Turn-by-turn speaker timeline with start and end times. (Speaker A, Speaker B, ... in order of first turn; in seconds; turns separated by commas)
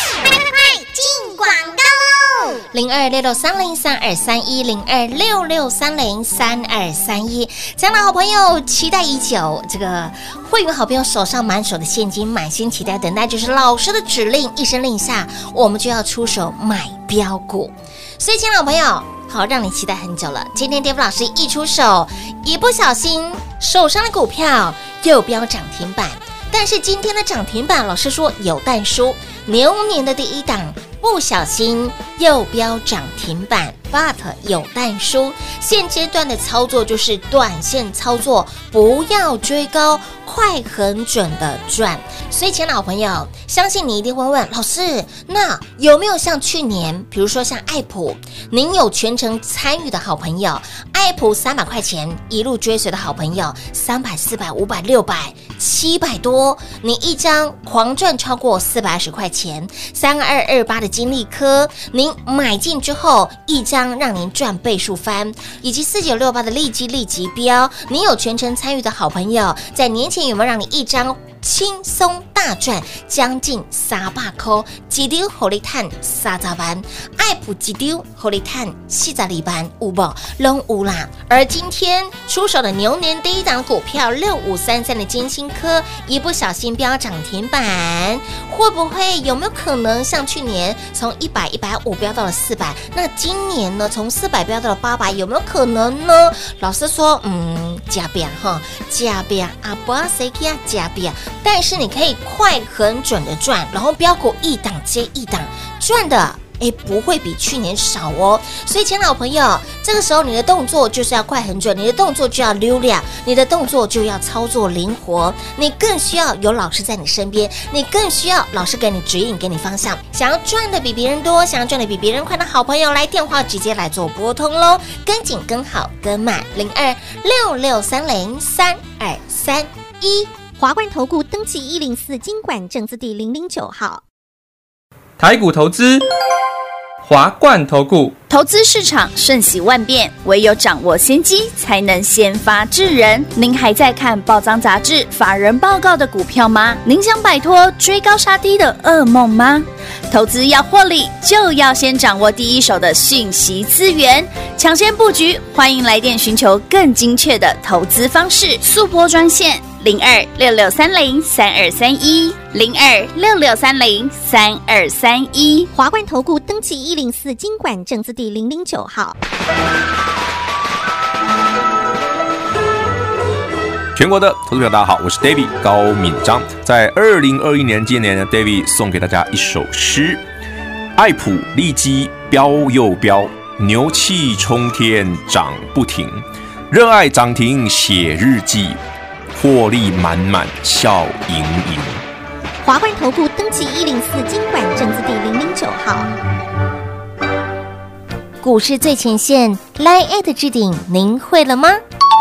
Speaker A: 0.4-2.5, Speaker B: 2.7-130.3, Speaker A: 130.6-134.0, Speaker C: 135.2-136.0, Speaker C: 137.0-138.1, Speaker D: 138.3-165.7, Speaker A: 165.7-169.2, Speaker E: 173.9-180.2, Speaker E: 180.9-188.8, Speaker E: 189.3-192.0, Speaker A: 192.6-196.1, Speaker B: 198.4-201.8